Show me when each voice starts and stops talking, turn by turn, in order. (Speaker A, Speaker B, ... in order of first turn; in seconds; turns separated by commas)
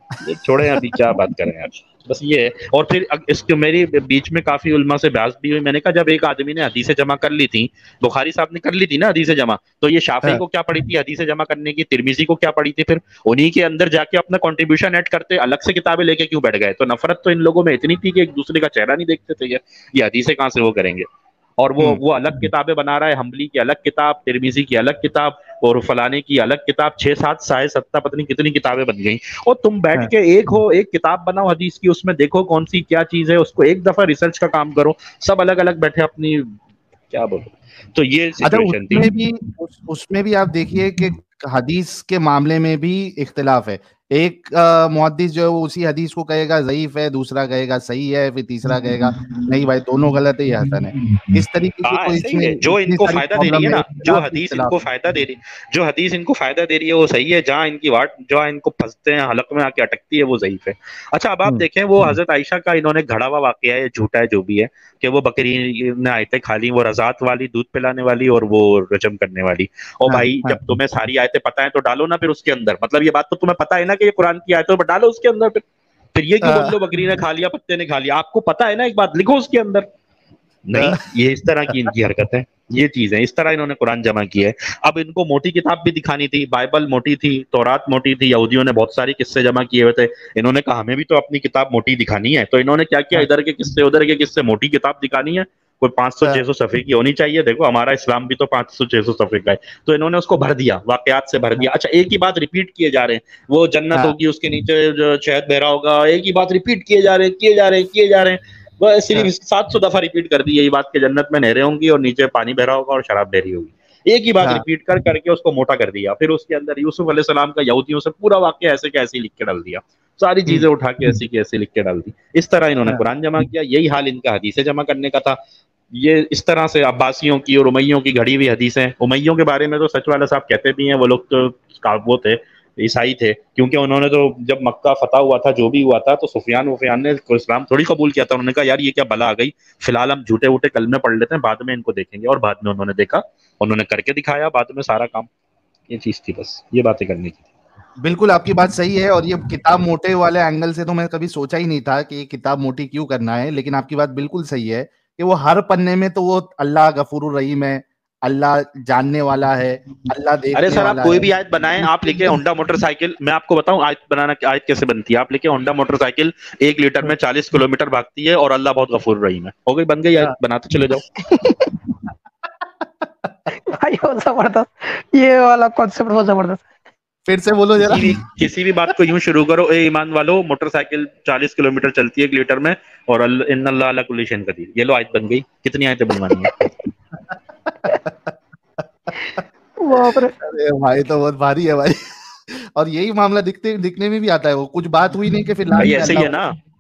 Speaker A: 0.2-21.1, Speaker A: 21.6-36.6, Speaker B: 21.8-22.5, Speaker A: 37.1-39.1, Speaker B: 38.4-54.8, Speaker A: 51.9-75.6, Speaker B: 61.5-62.1, Speaker B: 70.1-70.6, Speaker A: 76.1-79.9, Speaker B: 76.4-77.0, Speaker A: 80.7-125.4, Speaker B: 80.7-81.0, Speaker B: 81.7-81.9, Speaker A: 125.9-145.3, Speaker A: 145.9-147.4, Speaker B: 148.0-162.4, Speaker A: 160.6-171.1, Speaker C: 171.2-171.7, Speaker C: 173.7-176.6, Speaker B: 177.3-178.2, Speaker A: 177.9-186.5, Speaker C: 186.4-186.8, Speaker B: 187.7-188.3, Speaker C: 189.8-190.3, Speaker B: 189.9-191.9, Speaker B: 192.5-196.4, Speaker A: 195.8-196.6